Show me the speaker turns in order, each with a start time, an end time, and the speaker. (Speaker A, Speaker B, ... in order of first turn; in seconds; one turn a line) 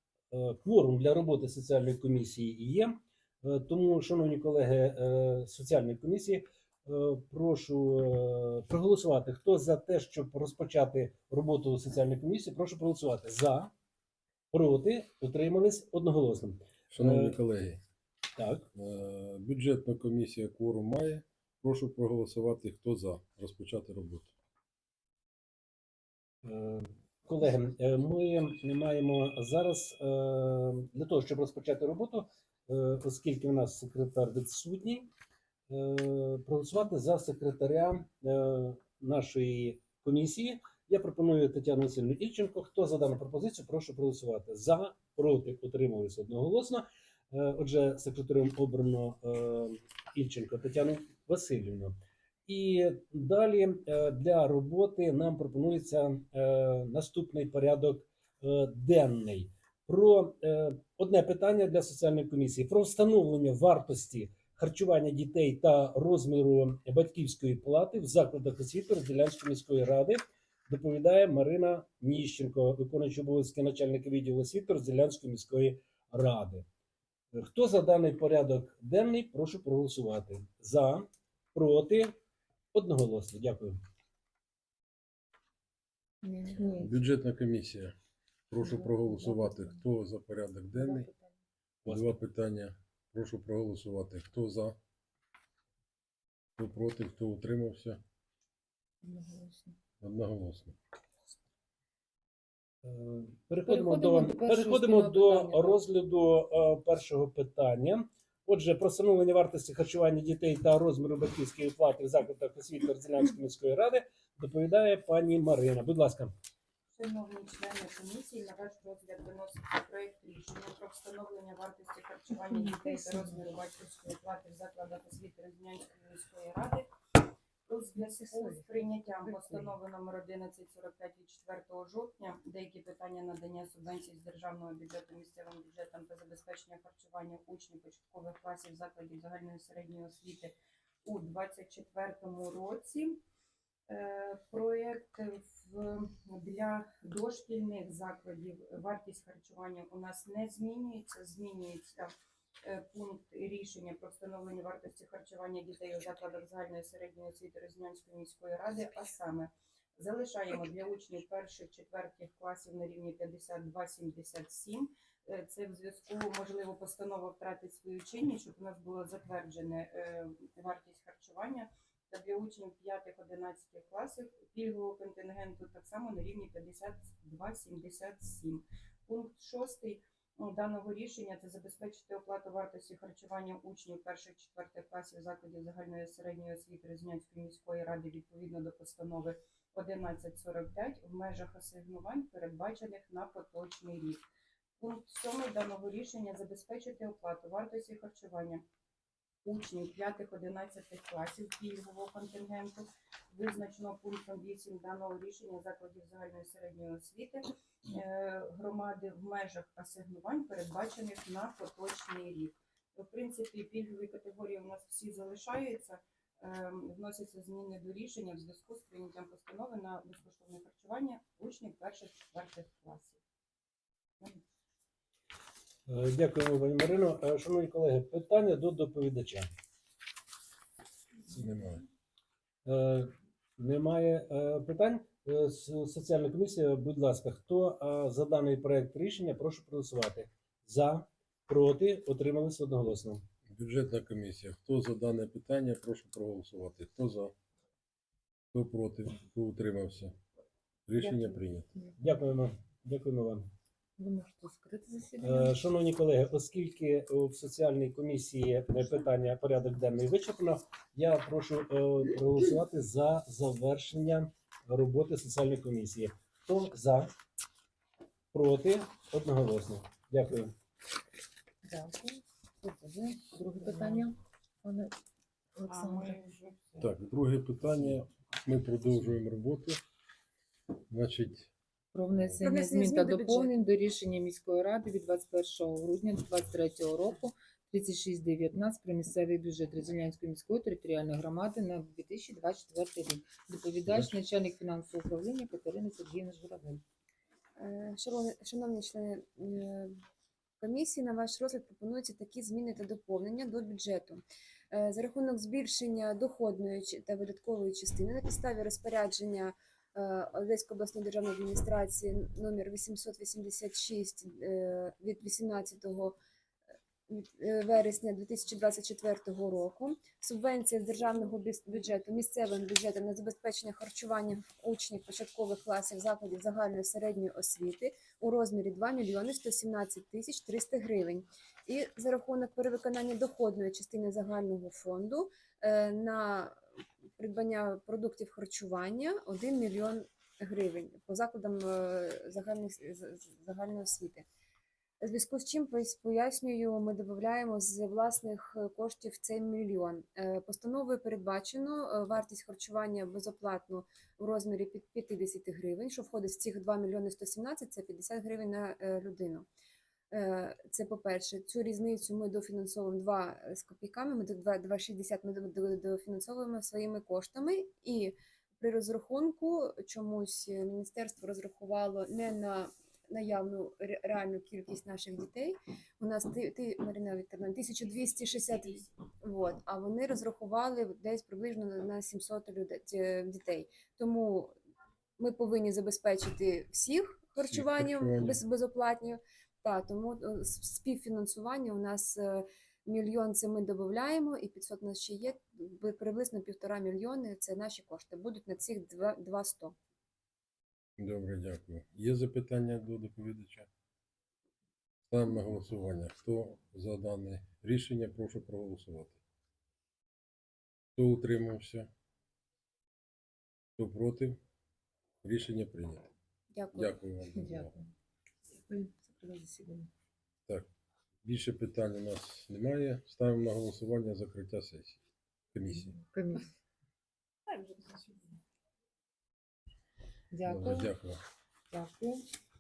Speaker A: 0.3-13.7
Speaker A: 14.5-17.4
Speaker B: 16.9-17.8
Speaker A: 18.4-18.7
Speaker B: 18.7-24.3
Speaker A: 26.4-35.1
Speaker A: 35.7-76.7
Speaker A: 77.3-82.2
Speaker A: 82.7-83.8
Speaker C: 86.2-86.9
Speaker B: 86.5-87.9
Speaker B: 88.5-91.1
Speaker C: 88.6-89.8
Speaker C: 90.7-91.3
Speaker A: 91.9-92.2
Speaker B: 91.9-94.8
Speaker B: 96.6-98.0
Speaker C: 99.0-99.8
Speaker B: 100.0-100.8
Speaker A: 102.8-116.3
Speaker C: 103.6-105.8
Speaker D: 116.9-126.9
Speaker C: 122.5-123.3
Speaker D: 127.7-140.5
Speaker C: 128.0-128.7
Speaker C: 129.3-129.7
Speaker D: 141.1-143.2
Speaker D: 143.9-152.1
Speaker D: 152.6-194.2
Speaker D: 194.8-198.6
Speaker D: 199.4-223.2
Speaker A: 225.9-229.5
Speaker B: 231.3-231.8
Speaker A: 232.7-243.2
Speaker B: 243.5-247.3
Speaker B: 248.5-250.2
Speaker B: 250.9-251.7
Speaker C: 251.0-252.0
Speaker A: 252.0-253.5
Speaker C: 254.0-255.6
Speaker A: 255.2-267.1
Speaker A: 268.3-270.5
Speaker C: 271.6-274.9
Speaker C: 275.6-276.2
Speaker D: 275.7-276.9
Speaker B: 276.8-279.8
Speaker B: 280.9-281.5
Speaker C: 281.9-296.8
Speaker E: 282.4-283.6
Speaker B: 293.9-294.1
Speaker E: 297.6-300.0
Speaker E: 300.6-316.2
Speaker E: 317.1-336.6
Speaker E: 337.2-344.3
Speaker E: 345.0-359.5
Speaker E: 360.1-384.6
Speaker E: 385.2-399.8
Speaker B: 387.4-388.4
Speaker B: 401.0-403.7
Speaker B: 405.1-409.2
Speaker B: 411.0-411.9
Speaker B: 413.8-414.4
Speaker B: 415.2-416.1
Speaker E: 416.5-417.0
Speaker B: 416.7-417.8
Speaker C: 417.4-417.9
Speaker C: 418.5-419.9
Speaker B: 421.2-425.0
Speaker B: 425.5-426.0
Speaker C: 425.9-426.5
Speaker C: 430.3-430.9
Speaker B: 430.4-431.2
Speaker C: 431.7-432.2